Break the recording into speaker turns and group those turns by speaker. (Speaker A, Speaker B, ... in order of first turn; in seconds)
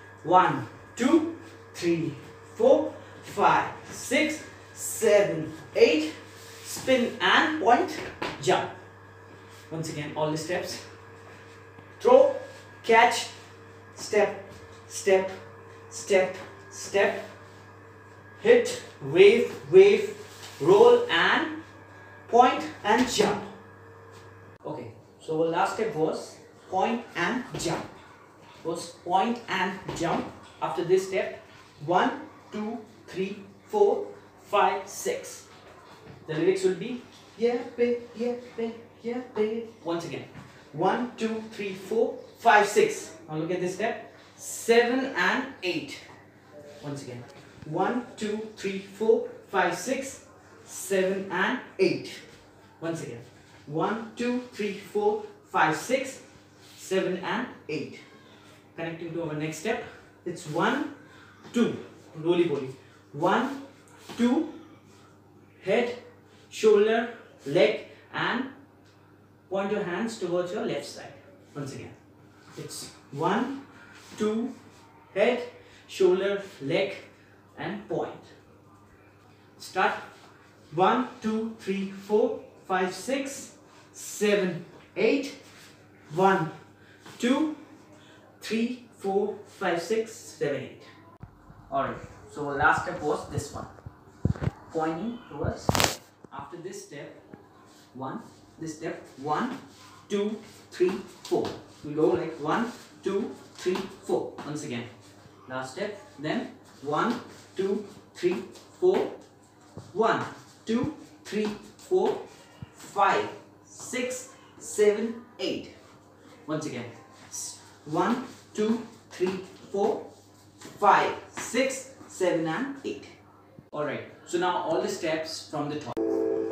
Speaker A: 0.2-8.7, 9.7-10.8, 12.0-13.3, 13.9-15.3, 15.9-17.2, 18.4-21.5, 22.3-23.5, 24.6-27.9, 28.6-35.5, 36.3-46.0, 46.8-52.2, 52.8-56.2, 56.8-58.0, 58.7-60.9, 61.5-63.6, 64.1-64.5, 65.6-68.5, 69.5-71.9, 72.5-73.6, 74.1-74.5, 75.1-78.3, 79.6-80.0, 80.7-85.4, 86.1-86.5, 87.2-87.6, 88.4-90.9, 91.7-93.7, 94.7-97.2, 97.9-104.9, 105.5-109.2, 109.9-115.7, 116.5-120.0, 120.7-123.2, 123.7-126.0